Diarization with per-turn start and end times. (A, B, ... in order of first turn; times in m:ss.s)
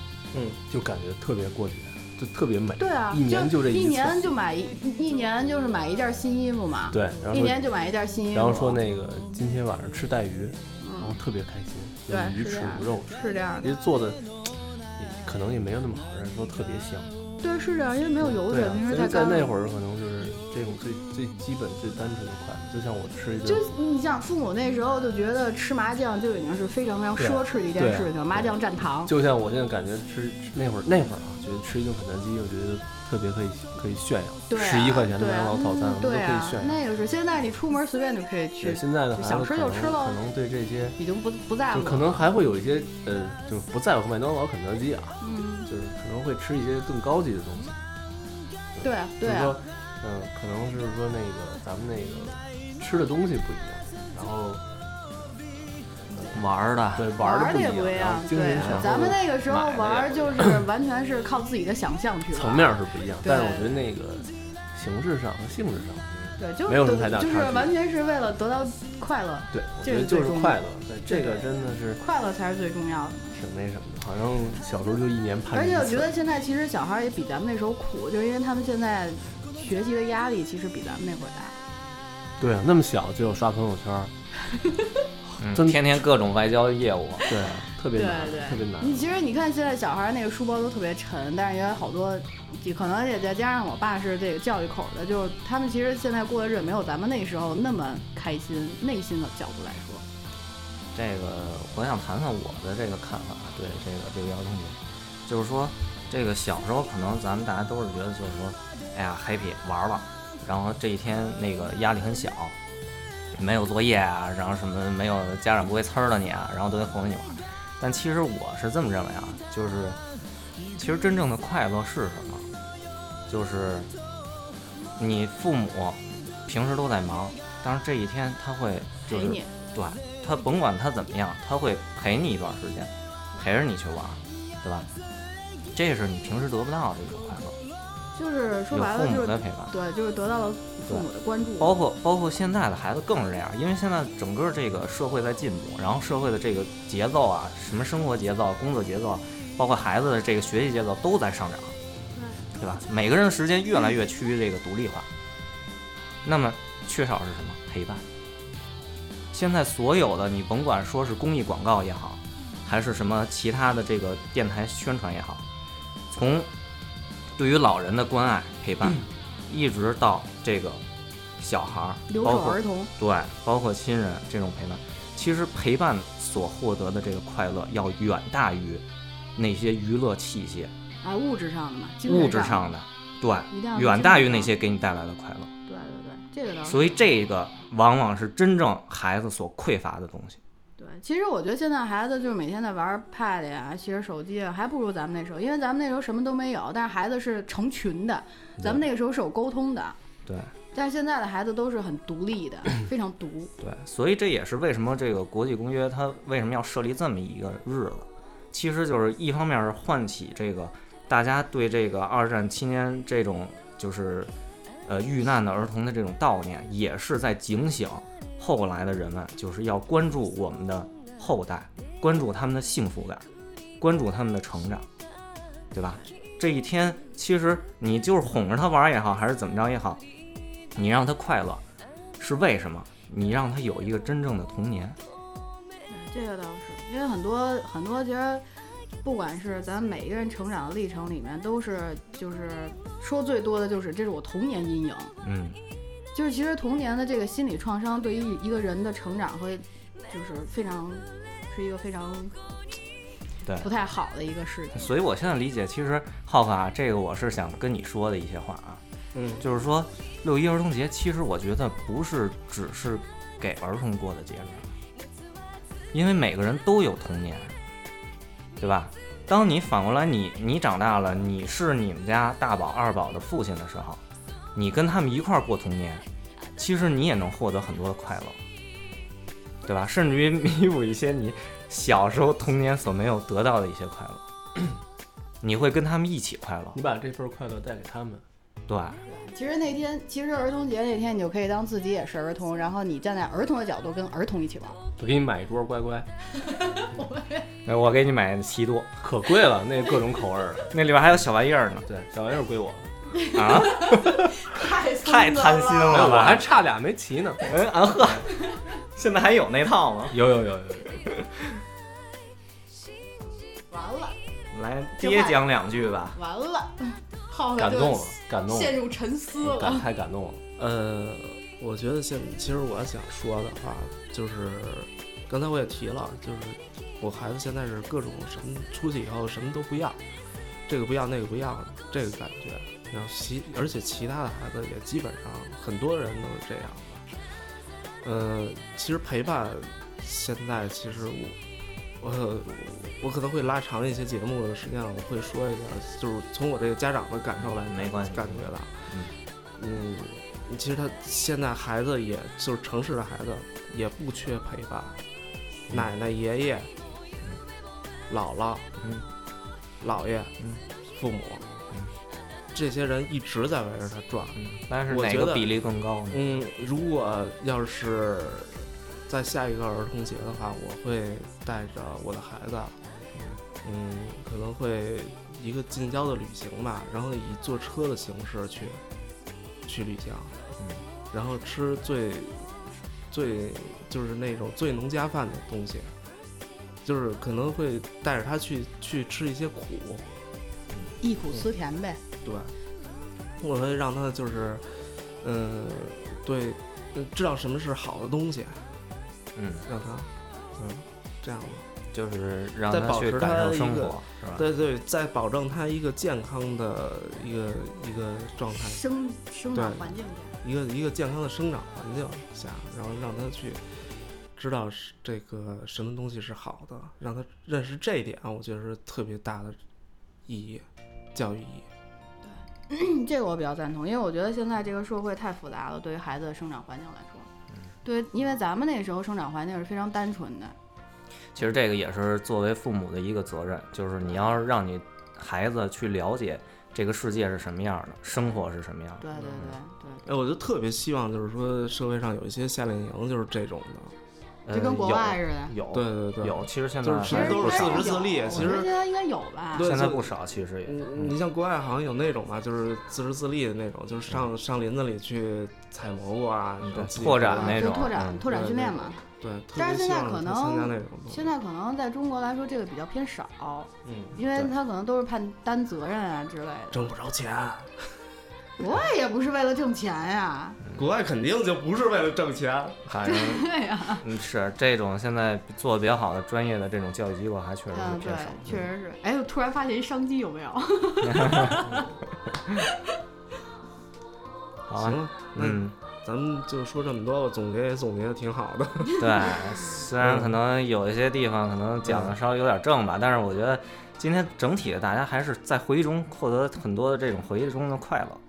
0:00.3-0:00.6 A
0:00.7-0:04.3 B
0:02.8-0:08.8 C
0:06.9-0:07.6 B
0:08.3-0:17.2 B
0:10.8-0:11.2 C
0:12.1-0:13.8 C
0:17.4-0:19.5 C
0:18.2-0:23.7 B
0:23.4-0:29.1 C
0:27.2-0:36.8 B
0:34.5-0:40.2 C
0:38.6-0:41.0 B
0:41.0-0:42.2 C
0:41.7-0:47.8 B
0:45.2-0:45.7 C
0:48.7-0:54.6 B
0:48.8-0:49.6 C
0:56.1-0:56.4 B
0:56.3-0:57.1 D
0:56.9-1:00.6 B
0:57.2-1:03.8 C
1:02.3-1:07.7 B
1:06.4-1:13.4 C
1:09.5-1:12.0 B
1:13.3-1:16.1 B
1:15.5-1:21.6 C
1:22.4-1:24.1 B
1:25.2-1:25.9 B
1:25.4-1:27.3 D
1:27.3-1:29.0 B
1:27.9-1:40.0 C
1:40.9-1:52.6 D
1:53.3-2:00.0 D
2:00.7-2:02.5 D
2:03.3-2:03.9 D
2:05.0-2:14.9 D
2:09.1-2:09.5 C
2:15.7-2:17.6 D
2:18.1-2:21.8 C
2:18.7-2:19.7 D
2:21.6-2:31.8 D
2:32.5-2:35.1 D
2:36.2-2:38.0 D
2:39.3-2:45.4 D
2:46.1-2:46.5 D
2:47.4-2:50.8 D
2:51.4-2:58.8 D
2:52.1-2:52.9 C
2:59.4-3:00.7 D
3:01.0-3:02.7 C
3:02.1-3:05.5 D
3:03.5-3:04.5 C
3:05.7-3:07.0 C
3:06.6-3:10.4 D
3:10.8-3:20.0 C
3:20.2-3:20.5 D
3:20.7-3:23.5 C
3:23.6-3:34.3 D
3:34.8-3:43.2 D
3:43.8-3:44.8 D
3:45.7-3:50.0 D
3:50.7-3:51.6 D
3:52.2-3:55.0 D
3:55.9-3:58.4 C
3:59.0-4:05.1 C
4:05.2-4:05.6 D
4:06.1-4:12.4 C
4:13.6-4:14.8 C
4:14.7-4:18.8 D
4:19.1-4:19.4 A
4:19.4-4:24.7 D
4:25.9-4:27.5 D
4:28.6-4:34.0 D
4:34.5-4:36.0 D
4:36.6-4:38.4 D
4:39.6-4:44.2 D
4:45.4-4:46.8 D
4:46.7-4:48.2 B
4:48.7-4:49.0 D
4:49.0-4:54.8 C
4:55.0-4:56.1 B
4:56.4-4:57.5 C
4:57.6-4:58.9 D
4:59.0-5:00.7 B
5:00.7-5:01.9 D
5:01.8-5:02.9 B
5:03.1-5:06.1 C
5:03.3-5:04.2 D
5:05.0-5:06.4 D
5:05.8-5:08.2 B
5:07.4-5:08.3 D
5:08.9-5:10.2 D
5:10.1-5:11.0 B
5:13.7-5:14.1 C
5:14.5-5:16.2 D
5:15.0-5:15.4 C
5:16.1-5:19.8 C
5:17.6-5:18.9 B
5:19.4-5:20.4 B
5:20.6-5:30.0 A
5:30.7-5:37.0 A
5:38.0-5:41.4 A
5:42.0-5:48.9 A
5:47.7-5:49.1 D
5:49.6-5:55.0 A
5:55.7-5:56.7 A
5:58.1-5:58.7 A
5:58.8-5:59.0 D
5:59.8-6:00.3 A
6:00.9-6:01.4 A
6:02.5-6:05.5 A
6:04.4-6:06.2 D
6:06.1-6:12.8 A
6:13.6-6:18.8 A
6:19.6-6:20.3 A
6:21.1-6:22.5 A
6:23.1-6:25.9 A
6:26.8-6:30.1 A
6:31.0-6:32.0 C
6:32.2-6:32.5 A
6:33.4-6:38.7 A
6:39.3-6:39.6 D
6:39.6-6:41.6 A
6:41.9-6:44.4 D
6:42.7-6:48.8 A
6:48.6-6:50.4 C
6:49.5-6:49.9 A
6:50.4-6:53.6 A
6:54.4-6:59.6 A
7:00.3-7:01.7 A
7:02.2-7:07.3 C
7:07.8-7:10.5 C
7:11.3-7:19.5 D
7:14.0-7:14.4 C
7:19.0-7:20.0 C
7:20.0-7:23.9 A
7:24.4-7:28.5 D
7:24.5-7:25.6 C
7:25.7-7:28.7 A
7:27.1-7:29.7 C
7:29.6-7:37.6 A
7:29.6-7:31.2 D
7:36.6-7:38.1 D
7:37.3-7:39.0 C
7:38.2-7:41.3 A
7:39.6-7:46.9 C
7:43.8-7:44.1 A
7:46.7-7:47.8 A
7:48.6-7:50.6 C
7:50.7-7:52.8 A
7:52.8-7:58.6 D
7:53.0-7:54.0 C
7:57.7-8:01.8 C
8:01.0-8:01.8 D
8:04.7-8:05.7 D
8:04.8-8:09.0 A
8:09.0-8:18.2 D
8:10.0-8:10.4 A
8:11.8-8:12.1 A